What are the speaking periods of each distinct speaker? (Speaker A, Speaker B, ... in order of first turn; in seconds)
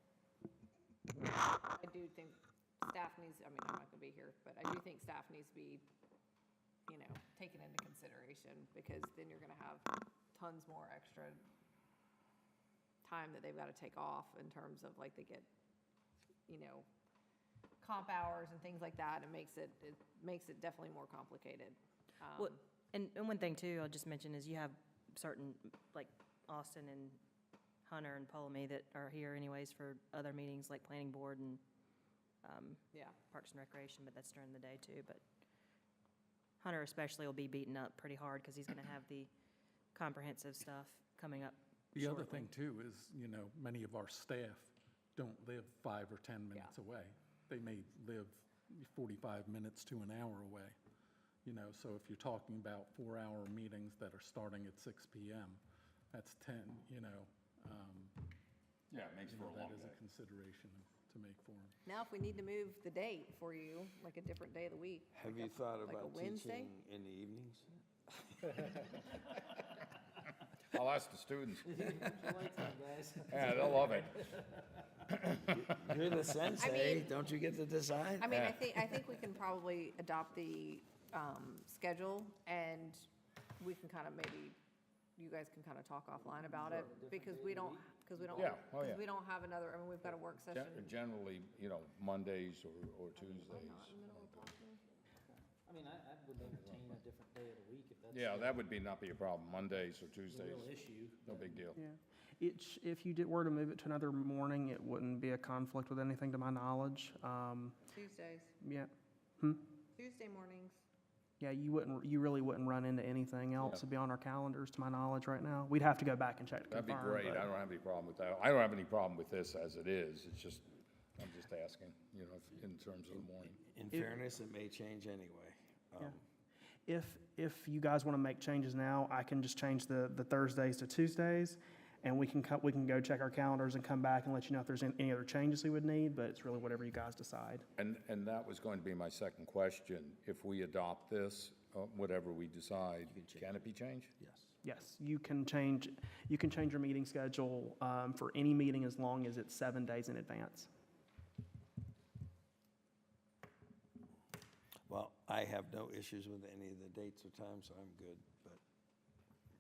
Speaker A: 1.8-5.8, 6.9-11.4, 13.0-15.5, 16.5-16.9, 17.8-22.6, 61.9-66.7, 76.6-77.1, 78.2-83.1, 83.6-84.6, 85.2-90.9, 93.2-94.8, 107.9-108.5, 110.0-110.8
Speaker B: 22.4-27.2, 27.9-31.6, 32.4-35.2, 36.6-39.3, 40.0-42.5
Speaker C: 41.9-50.8, 51.4-58.3, 59.3-61.8
Speaker D: 58.9-60.0, 70.7-72.1, 73.2-74.2, 75.1-75.6, 88.4-89.0, 90.5-94.0, 96.5-96.9, 98.1-101.8, 116.7-120.7, 121.2-123.6, 137.8-144.1
Speaker E: 65.1-68.4, 75.5-78.4, 123.1-126.2, 143.1-143.7, 144.2-144.6, 154.9-158.6
Speaker F: 71.7-74.8, 86.4-88.6, 95.7-98.7, 100.3-101.5
Speaker G: 101.8-107.8, 108.6-109.6, 111.4-117.5, 126.9-137.7, 144.6-150.7